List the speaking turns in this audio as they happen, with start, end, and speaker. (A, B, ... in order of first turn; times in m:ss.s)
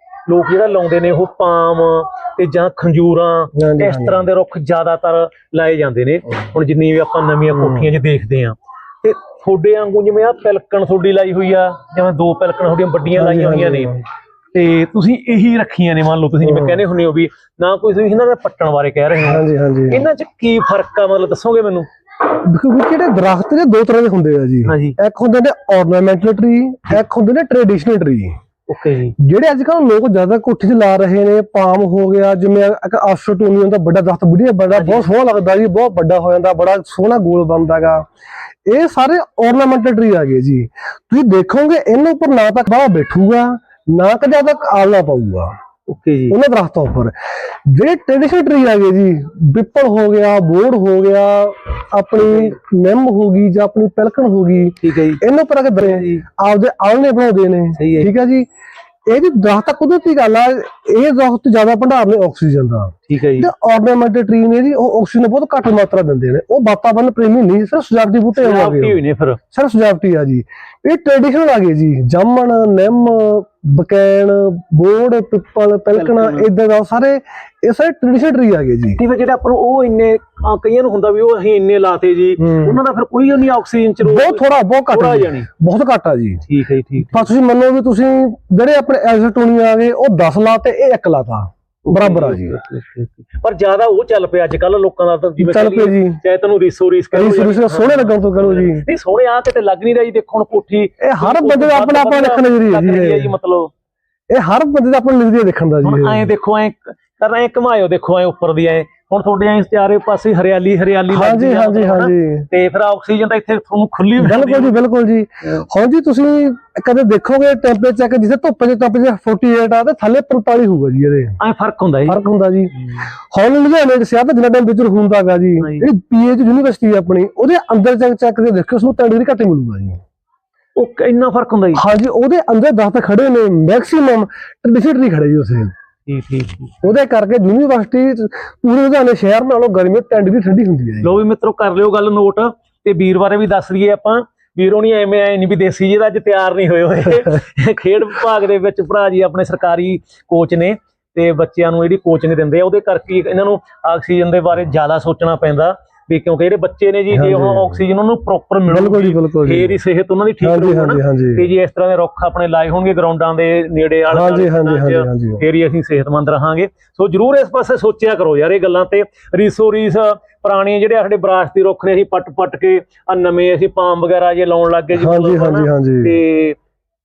0:00.3-0:13.9 A
0:03.5-0:04.2 B
0:07.5-0:07.9 B
0:13.2-0:14.0 B
0:14.5-0:21.9 A
0:16.4-0:16.8 B
0:19.2-0:20.1 B
0:22.3-0:28.4 B
0:24.7-0:25.0 A
0:28.7-0:29.2 A
0:29.2-0:38.0 B
0:34.7-0:35.1 A
0:38.7-0:45.5 B
0:45.9-0:46.4 A
0:46.3-0:47.1 B
0:47.7-0:58.5 B
0:52.2-0:52.6 A
0:54.8-0:55.2 A
0:55.8-0:56.2 A
0:57.8-0:58.1 A
0:59.1-1:09.0 B
1:03.1-1:03.5 A
1:08.4-1:09.4 A
1:09.5-1:19.0 B
1:15.9-1:16.5 A
1:19.0-1:25.5 A
1:22.4-1:22.8 B
1:24.0-1:26.4 B
1:26.5-1:27.3 A
1:27.0-1:32.6 B
1:31.8-1:43.7 A
1:35.4-1:36.2 B
1:37.1-1:38.8 B
1:41.0-1:43.3 B
1:44.3-1:46.3 B
1:45.8-1:54.8 A
1:51.1-1:52.5 B
1:54.2-2:01.4 B
2:01.4-2:02.2 A
2:02.1-2:10.0 B
2:05.6-2:05.9 A
2:10.8-2:11.8 A
2:11.8-2:15.7 B
2:16.1-2:16.7 A
2:16.8-2:21.1 B
2:21.0-2:56.6 A
2:37.1-2:37.8 B
2:38.7-2:39.8 B
2:40.4-2:41.5 B
2:44.1-2:45.4 B
2:55.0-2:56.2 B